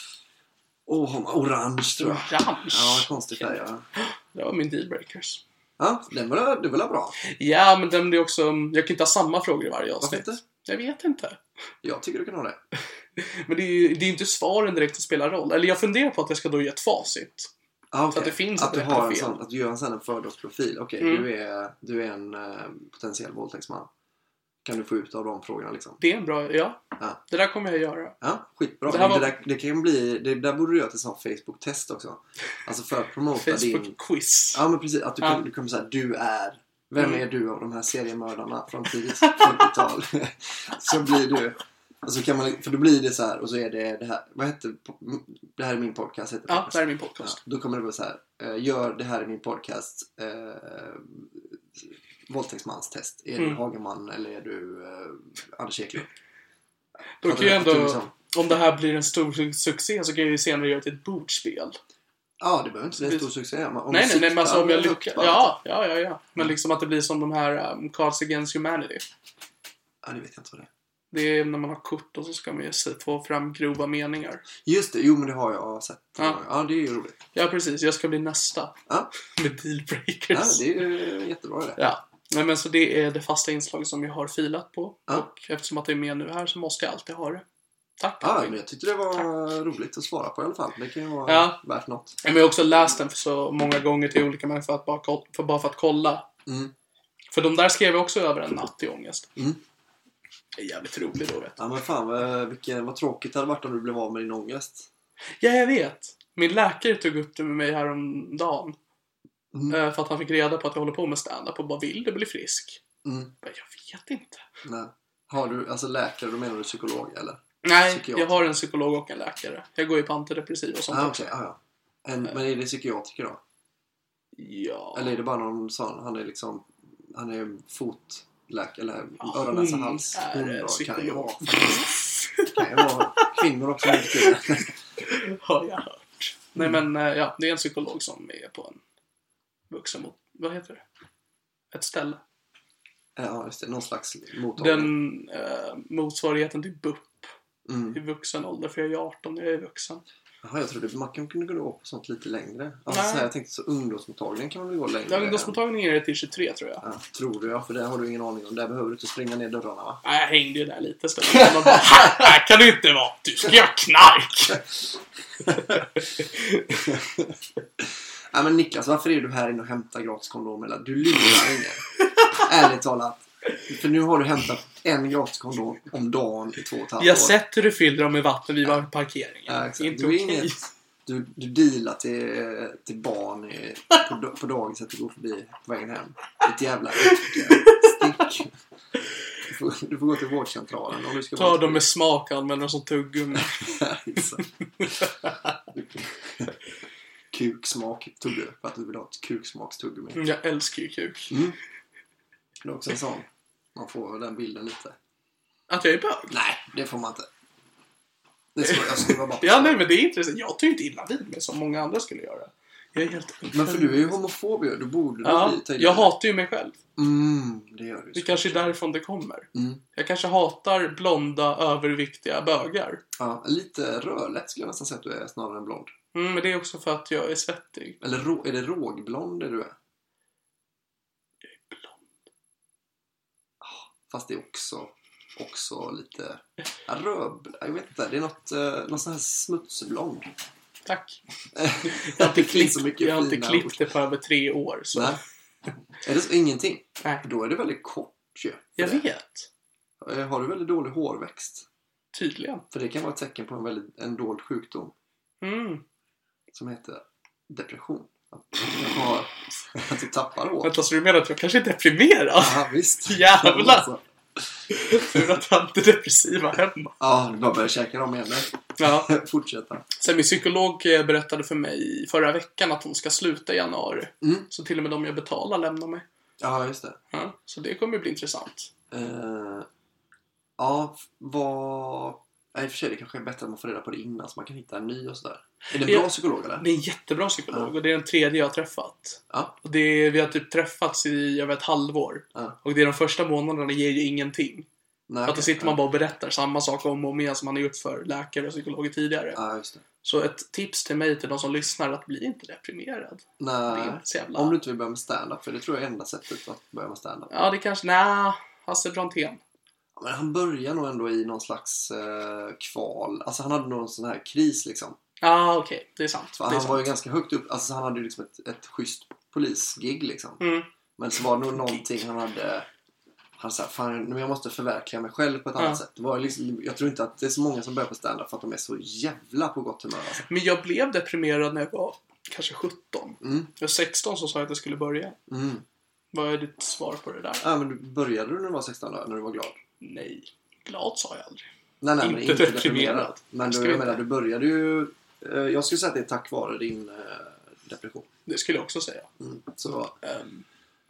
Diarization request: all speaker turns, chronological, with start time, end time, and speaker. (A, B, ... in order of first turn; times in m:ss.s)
0:00.9-0:03.9 A
0:02.0-0:05.4 B
0:05.8-0:07.2 A
0:07.2-0:11.4 B
0:10.0-0:10.4 A
0:11.8-0:12.6 A
0:13.2-0:17.5 B
0:17.9-0:23.9 A
0:18.1-0:19.4 B
0:21.0-0:21.3 B
0:24.6-0:26.0 A
0:26.0-0:28.2 B
0:28.2-0:34.0 A
0:28.9-0:29.3 B
0:33.4-0:34.6 B
0:34.5-0:56.1 A
0:39.2-0:39.7 B
0:46.5-0:47.4 B
0:57.2-1:01.8 B
0:57.2-0:58.1 A
1:02.4-1:05.5 A
1:03.9-1:09.1 B
1:10.0-1:10.7 A
1:11.1-1:14.4 B
1:14.6-1:17.2 A
1:17.4-1:20.6 B
1:20.3-1:21.8 A
1:21.8-1:27.4 B
1:28.0-1:28.6 B
1:28.2-1:32.2 A
1:31.3-1:31.6 B
1:32.2-1:36.3 B
1:36.5-1:36.7 A
1:37.3-1:39.3 B
1:39.4-1:39.6 A
1:40.6-1:41.6 B
1:41.6-1:44.9 A
1:45.4-1:48.8 B
1:49.5-1:49.8 A
1:49.7-1:52.8 B
1:53.0-1:53.3 A
1:53.4-1:54.4 B
1:54.6-1:58.5 A
1:57.6-2:01.2 B
2:00.9-2:03.4 A
2:04.4-2:05.2 B
2:04.9-2:11.9 A
2:09.2-2:13.3 B
2:12.4-2:14.7 A
2:13.8-2:14.3 B
2:15.0-2:18.8 B
2:19.7-2:20.8 B
2:21.7-2:22.2 B
2:23.2-2:24.9 A
2:24.6-2:27.3 B
2:27.7-2:28.0 A
2:27.9-2:30.0 B
2:30.4-2:35.6 A
2:32.9-2:33.3 B
2:35.1-2:36.8 B
2:36.8-2:40.0 A
2:40.0-2:44.6 B
2:41.3-2:42.2 A
2:45.5-2:45.8 A
2:45.5-2:46.8 B
2:46.8-2:51.8 A
2:52.4-2:57.4 A
2:57.0-3:00.6 B
2:59.5-3:08.6 A
3:07.0-3:07.9 B
3:09.4-3:11.9 A
3:11.4-3:13.8 B
3:13.6-3:14.4 A
3:14.8-3:15.1 B
3:15.8-3:16.5 A
3:17.3-3:20.2 A
3:20.2-3:21.4 B
3:21.3-3:21.6 A
3:22.6-3:25.0 A
3:25.7-3:26.3 B
3:26.3-3:27.3 A
3:28.6-3:29.8 A
3:28.7-3:34.2 B
3:33.5-3:36.1 A
3:35.2-3:36.8 B
3:37.0-3:38.7 A
3:38.2-3:43.0 B
3:39.5-3:39.8 A
3:43.2-3:45.9 A
3:46.1-3:48.0 B
3:48.0-3:49.8 A
3:51.7-3:52.0 B
3:53.6-4:00.3 A
4:00.9-4:01.2 B
4:01.5-4:03.8 A
4:01.9-4:05.2 B
4:04.9-4:05.2 A
4:06.0-4:09.0 A
4:08.8-4:09.5 B
4:10.0-4:11.7 A
4:12.1-4:12.6 B
4:12.7-4:14.9 A
4:15.4-4:15.8 B
4:16.5-4:20.7 A
4:20.6-4:23.9 B
4:22.4-4:24.0 A
4:24.7-4:26.9 B
4:24.9-4:25.3 A
4:27.0-4:29.9 A
4:28.8-4:29.1 B
4:30.0-4:36.0 B
4:34.2-4:34.5 A
4:36.4-4:37.0 A
4:37.1-4:38.7 B
4:38.9-4:39.7 A
4:40.6-4:46.6 A
4:45.8-4:54.7 B
4:49.3-4:49.6 A
4:55.1-4:55.8 A
4:55.3-4:59.4 B
4:59.4-4:59.8 A
5:00.0-5:04.6 B
5:03.4-5:07.3 A
5:07.3-5:09.4 B
5:10.0-5:15.0 A
5:15.2-5:16.9 B
5:16.4-5:20.4 A
5:20.4-5:20.7 B
5:21.0-5:22.7 A
5:23.4-5:30.2 A
5:25.6-5:25.8 B
5:30.3-5:35.2 B
5:33.2-5:33.5 A
5:35.3-5:35.6 A
5:36.1-5:37.4 B
5:37.4-5:39.6 A
5:39.8-5:41.5 B
5:41.8-5:48.1 A
5:42.0-5:44.0 B
5:48.3-5:49.1 B
5:49.2-5:50.0 A
5:50.0-5:50.4 B